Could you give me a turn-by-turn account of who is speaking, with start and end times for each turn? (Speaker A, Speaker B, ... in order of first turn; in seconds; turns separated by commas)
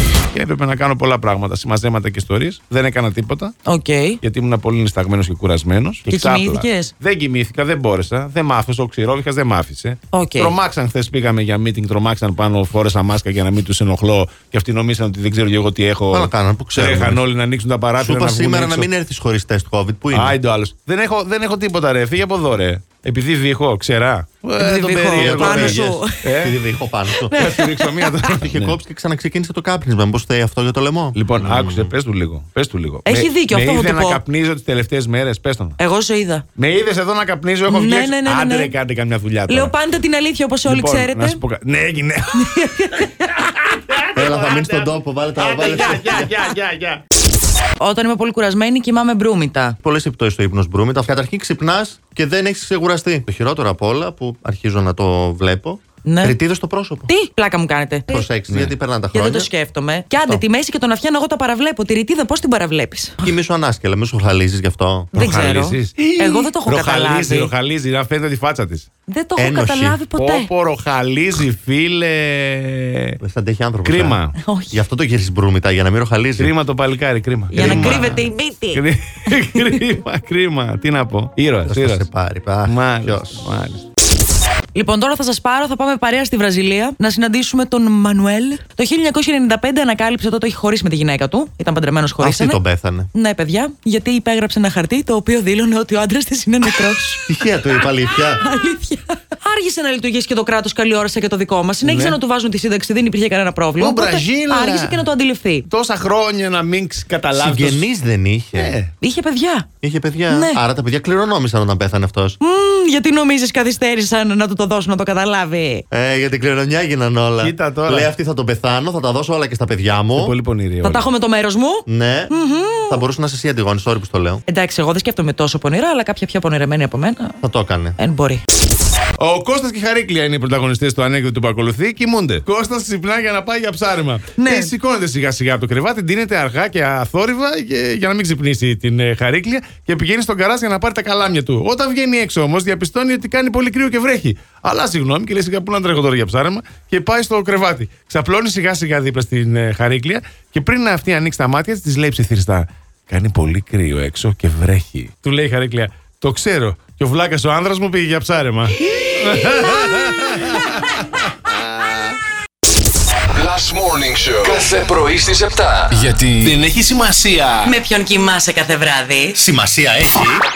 Speaker A: 0.3-3.5, Speaker B: 3.7-4.2, Speaker A: 4.2-18.9, Speaker B: 6.1-6.9, Speaker B: 10.1-10.5, Speaker C: 16.1-17.2, Speaker C: 18.0-20.4, Speaker A: 20.1-26.6, Speaker B: 24.6-26.2, Speaker C: 24.6-27.4, Speaker B: 27.2-28.3, Speaker A: 27.3-28.8, Speaker C: 28.3-31.9, Speaker A: 31.1-35.8, Speaker B: 33.1-34.2, Speaker B: 35.8-36.5, Speaker A: 36.6-39.7, Speaker B: 37.7-38.7, Speaker B: 39.5-41.4, Speaker A: 40.7-42.6, Speaker B: 42.3-43.5, Speaker A: 43.7-47.0, Speaker C: 44.1-46.3, Speaker B: 47.8-49.8, Speaker C: 49.8-57.1, Speaker B: 56.0-56.4, Speaker B: 57.1-58.2, Speaker C: 58.1-59.5, Speaker A: 58.5-58.7, Speaker B: 59.1-63.4, Speaker C: 63.2-65.1, Speaker B: 65.1-67.5, Speaker A: 65.2-68.9, Speaker B: 69.1-70.5, Speaker C: 69.4-70.0, Speaker A: 70.2-73.2, Speaker C: 73.2-74.2, Speaker A: 73.8-74.3, Speaker B: 74.4-74.8, Speaker C: 74.7-76.5, Speaker A: 76.4-82.1, Speaker B: 77.5-79.8, Speaker C: 77.6-78.2, Speaker C: 81.7-83.4, Speaker A: 82.7-83.9, Speaker B: 84.7-92.6, Speaker C: 92.2-93.1, Speaker B: 93.1-97.2, Speaker C: 97.3-98.4, Speaker B: 98.4-105.7, Speaker A: 101.8-102.2, Speaker A: 103.8-105.1, Speaker A: 105.7-107.9, Speaker C: 107.3-108.8, Speaker A: 108.6-108.9, Speaker B: 109.0-109.7, Speaker C: 109.8-112.4, Speaker B: 110.3-110.6, Speaker B: 112.4-115.8, Speaker C: 115.9-120.3, Speaker A: 117.4-118.1, Speaker A: 120.1-121.1, Speaker B: 120.8-123.0, Speaker C: 121.9-122.3, Speaker C: 122.9-124.4, Speaker B: 124.5-127.4, Speaker C: 127.4-128.0, Speaker B: 128.0-128.4, Speaker A: 129.2-162.0, Speaker B: 134.4-134.7, Speaker D: 163.3-166.6, Speaker A: 166.4-167.7, Speaker B: 167.6-169.4, Speaker C: 169.3-170.4